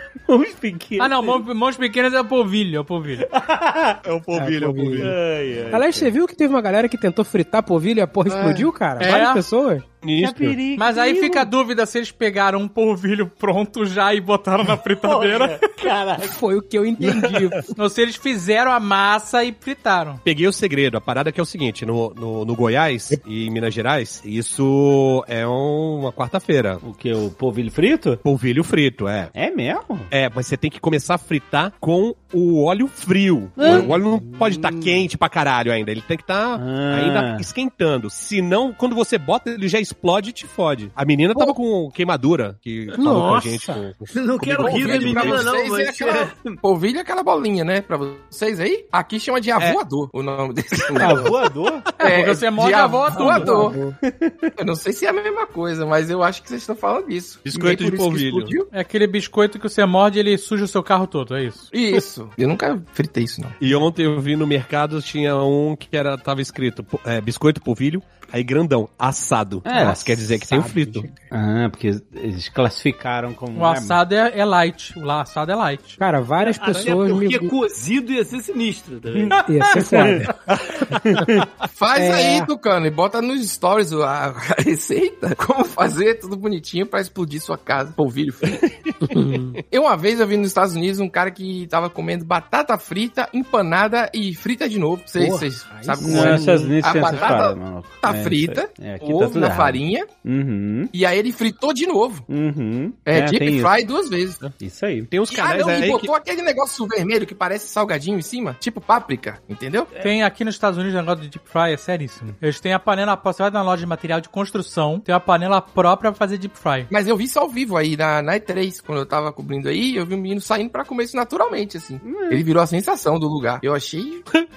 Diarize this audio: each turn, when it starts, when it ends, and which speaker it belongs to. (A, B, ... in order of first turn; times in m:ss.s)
0:00.3-0:01.4 A
0:01.0-0:03.2 B
0:03.3-0:04.0 A
0:04.0-0:05.2 C
0:04.3-0:05.1 D
0:05.0-0:06.1 A
0:05.7-0:09.8 D
0:08.3-0:08.7 E
0:09.0-0:09.4 B
0:10.0-0:10.6 C
0:10.2-0:11.5 A
0:10.8-0:15.7 B
0:15.0-0:16.4 A
0:16.2-0:17.7 D
0:17.1-0:17.5 C
0:17.7-0:20.2 B
0:20.2-0:26.8 C
0:26.8-0:28.2 A
0:28.2-0:29.3 C
0:29.3-0:30.1 A
0:30.1-0:45.5 C
0:33.6-0:33.9 A
0:33.6-0:35.0 D
0:36.6-0:37.4 A
0:43.0-0:43.9 D
0:44.1-0:46.6 F
0:44.6-0:51.3 E
0:51.0-0:51.9 A
0:52.0-0:53.7 B
0:52.0-0:53.8 E
0:53.1-0:54.0 D
0:54.0-0:54.5 A
0:54.6-0:58.7 E
0:57.4-0:58.5 C
0:58.7-1:01.7 B
1:01.7-1:03.6 E
1:03.6-1:11.1 C
1:09.6-1:10.0 A
1:09.7-1:11.3 D
1:11.3-1:14.0 A
1:13.5-1:16.0 B
1:16.0-1:17.5 D
1:16.4-1:19.4 F
1:19.1-1:20.2 A
1:19.4-1:20.0 B
1:19.4-1:20.3 D
1:21.0-1:21.5 A
1:21.7-1:28.7 E
1:21.9-1:22.5 D
1:29.1-1:29.6 D
1:29.7-1:40.1 E
1:35.1-1:36.7 D
1:36.0-1:40.9 A
1:40.9-1:42.2 E
1:42.3-1:43.7 A
1:43.0-1:44.4 E
1:44.6-1:45.1 A
1:45.1-1:46.1 C
1:45.3-1:49.9 E
1:50.0-1:56.9 B
1:56.9-2:04.2 E
2:02.0-2:02.4 A